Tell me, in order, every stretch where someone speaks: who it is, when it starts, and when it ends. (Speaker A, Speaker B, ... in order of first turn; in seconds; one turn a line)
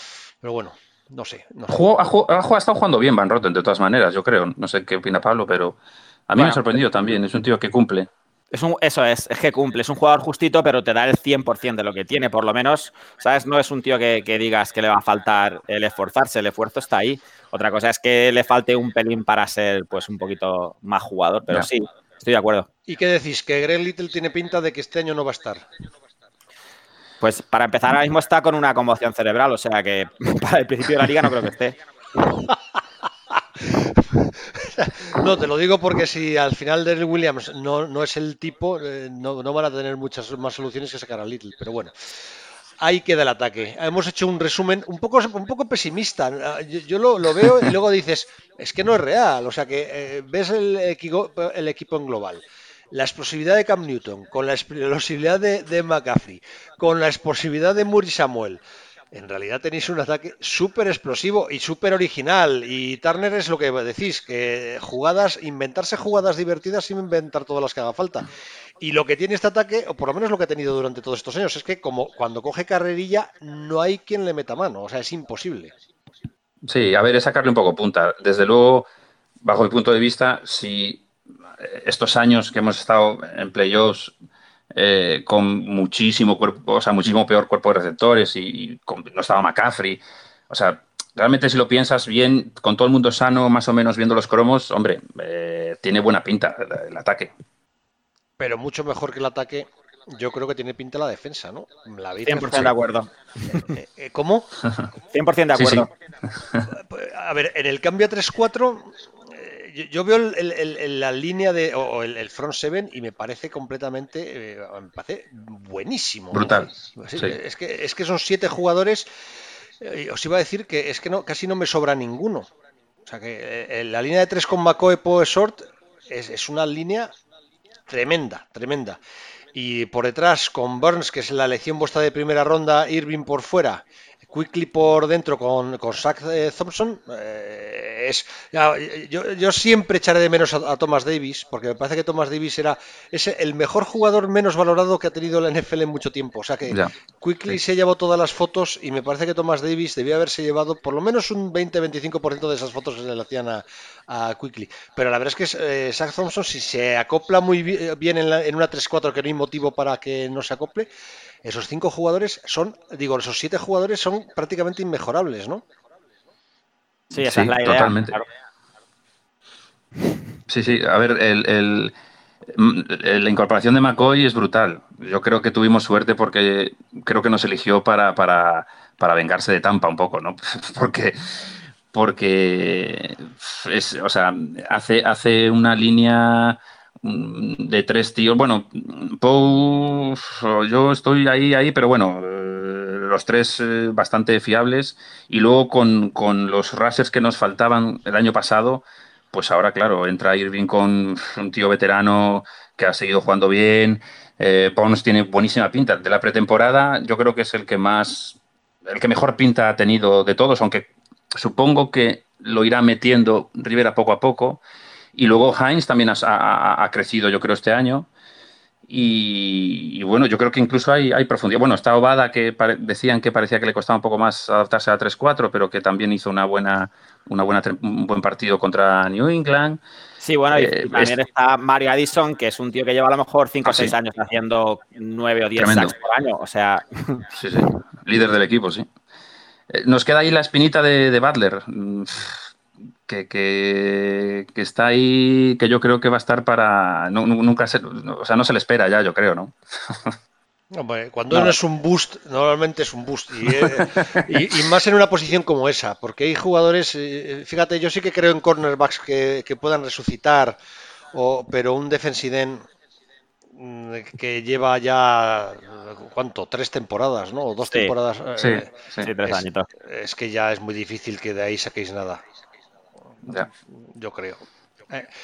Speaker A: 0.4-1.8
Speaker B: 1.7-5.8
Speaker B: 6.3-8.1
Speaker C: 6.4-6.6
Speaker C: 8.5-22.7
Speaker A: 22.9-25.6
Speaker C: 27.2-31.8
Speaker A: 33.7-41.9
Speaker A: 42.8-58.6
Speaker A: 59.1-68.3
Speaker A: 68.8-75.7
Speaker B: 76.7-78.9
Speaker B: 79.4-81.0
Speaker B: 81.6-84.2
Speaker B: 84.7-97.3
Speaker A: 98.4-102.7
Speaker C: 102.3-103.7
Speaker A: 103.7-104.5
Speaker C: 105.1-105.9
Speaker B: 105.5-106.7
Speaker A: 106.7-119.1
Speaker B: 116.3-117.3
Speaker A: 119.8-122.5
Speaker A: 123.1-127.1
Speaker A: 127.9-129.0
Speaker A: 129.6-160.9
Speaker A: 161.4-165.6
Speaker C: 167.1-168.3
Speaker B: 167.2-168.2
Speaker B: 170.5-171.9
Speaker B: 172.5-181.2
Speaker B: 181.9-214.6
Speaker B: 215.2-218.1
Speaker B: 218.9-229.8
Speaker C: 230.2-237.7
Speaker B: 230.5-231.1
Speaker B: 233.7-233.9
Speaker B: 235.6-235.9
Speaker B: 237.3-238.9
Speaker B: 239.7-242.4
Speaker B: 243.1-250.2
Speaker A: 250.7-260.6
Speaker B: 253.5-254.2
Speaker A: 261.1-262.6
Speaker A: 263.6-268.7
Speaker B: 268.4-269.1
Speaker C: 269.0-269.7
Speaker A: 269.3-272.2
Speaker A: 273.3-275.1